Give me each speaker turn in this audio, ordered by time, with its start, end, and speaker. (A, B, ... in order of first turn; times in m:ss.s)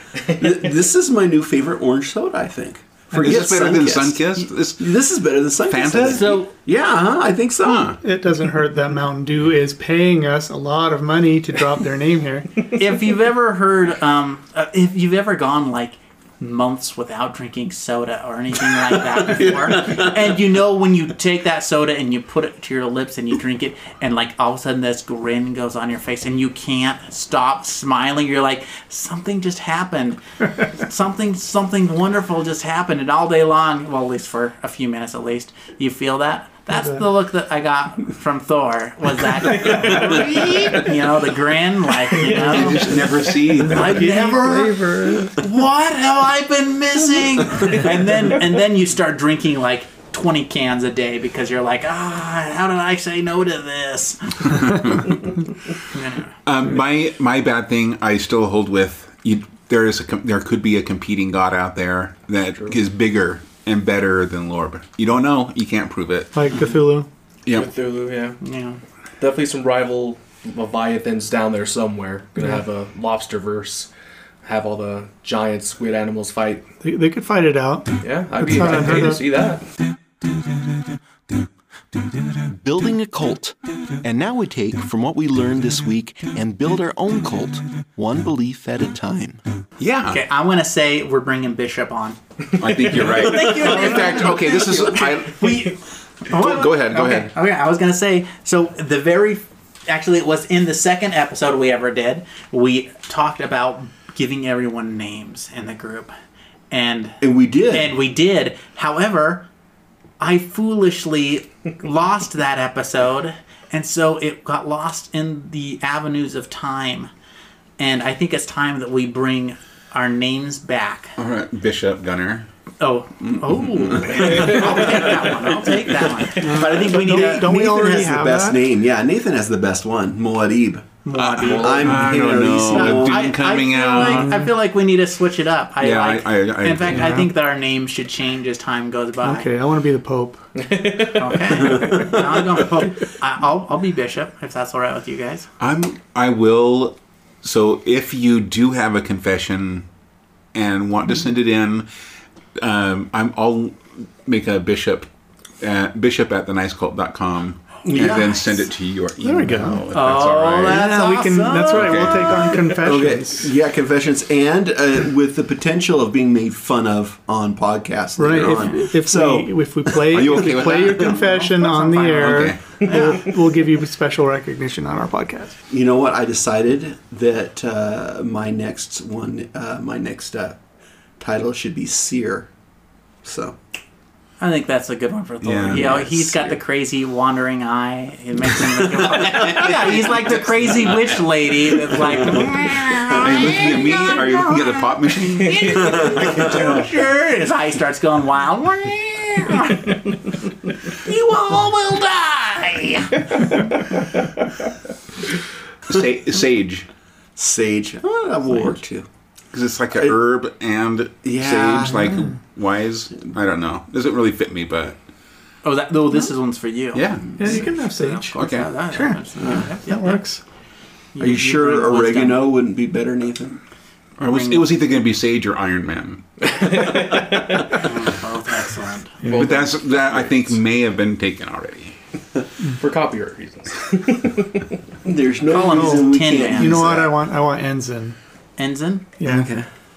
0:00.3-0:08.0 A
0:03.1-0:04.9 B
0:05.7-0:06.4 B
0:06.0-0:06.5 C
0:07.6-0:08.0 B
0:08.0-0:12.6 D
0:12.7-0:30.2 C
0:30.7-0:55.0 C
0:36.7-0:37.0 D
0:42.3-0:44.2 B
0:42.4-0:45.4 D
0:54.4-0:55.1 B
0:55.9-0:56.3 C
0:56.4-1:06.3 B
1:06.3-1:07.1 D
1:07.5-1:08.4 E
1:08.4-1:08.8 C
1:09.2-1:13.9 E
1:14.4-1:16.6 E
1:16.8-1:19.3 D
1:18.0-1:19.6 E
1:22.6-1:23.5 F
1:24.0-1:29.2 F
1:24.5-1:26.6 A
1:28.0-1:29.3 A
1:29.8-1:30.2 B
1:30.1-1:32.2 C
1:32.6-1:35.7 B
1:32.8-1:46.1 C
1:36.3-1:37.3 B
1:46.7-1:49.5 C
1:47.2-1:47.9 A
1:50.2-1:57.1 C
1:57.8-2:01.1 C
2:01.2-2:02.5 B
2:02.8-2:07.5 C
2:03.5-2:04.5 B
2:06.4-2:13.3 A
2:06.4-2:08.6 D
2:11.0-2:19.5 C
2:11.2-2:14.4 B
2:11.4-2:12.0 E
2:14.0-2:14.5 D
2:15.8-2:17.1 B
2:16.9-2:17.3 D
2:19.2-2:20.4 D
2:20.6-2:21.9 E
2:21.1-2:25.5 C
2:25.6-2:29.8 B
2:30.5-2:31.8 B
2:32.6-2:35.1 B
2:35.6-2:40.8 B
2:37.8-2:38.4 A
2:39.2-2:39.9 D
2:39.9-2:42.6 C
2:40.6-2:43.5 D
2:41.7-2:42.6 B
2:42.6-2:50.9 A
2:48.2-2:55.6 D
2:50.1-2:51.2 B
2:51.0-2:53.3 C
2:52.0-2:52.8 B
2:55.7-3:00.6 A
3:01.2-3:02.5 A
3:03.2-3:03.6 A
3:04.4-3:20.1 C
3:05.4-3:06.4 B
3:05.7-3:06.2 A
3:09.2-3:09.6 A
3:13.1-3:16.1 B
3:20.9-3:23.5 C
3:25.9-3:26.8 B
3:27.4-3:29.1 A
3:29.5-3:35.0 B
3:31.2-3:32.2 A
3:35.6-3:40.3 C
3:36.9-3:37.6 B
3:37.4-3:38.3 D
3:38.3-3:38.7 B
3:38.9-3:40.4 D
3:39.4-3:39.7 A
3:41.1-3:42.4 C
3:41.2-3:43.6 A
3:44.2-3:46.2 B
3:44.2-3:44.7 C
3:46.4-3:47.8 E
3:47.7-3:49.2 C
3:49.2-3:49.6 D
3:49.3-3:50.3 E
3:49.3-3:52.0 B
3:52.8-3:54.7 E
3:55.0-3:57.1 A
3:55.5-3:56.9 C
3:55.6-3:58.2 D
3:58.6-3:59.1 C
3:59.2-3:59.5 D
3:59.2-3:59.7 A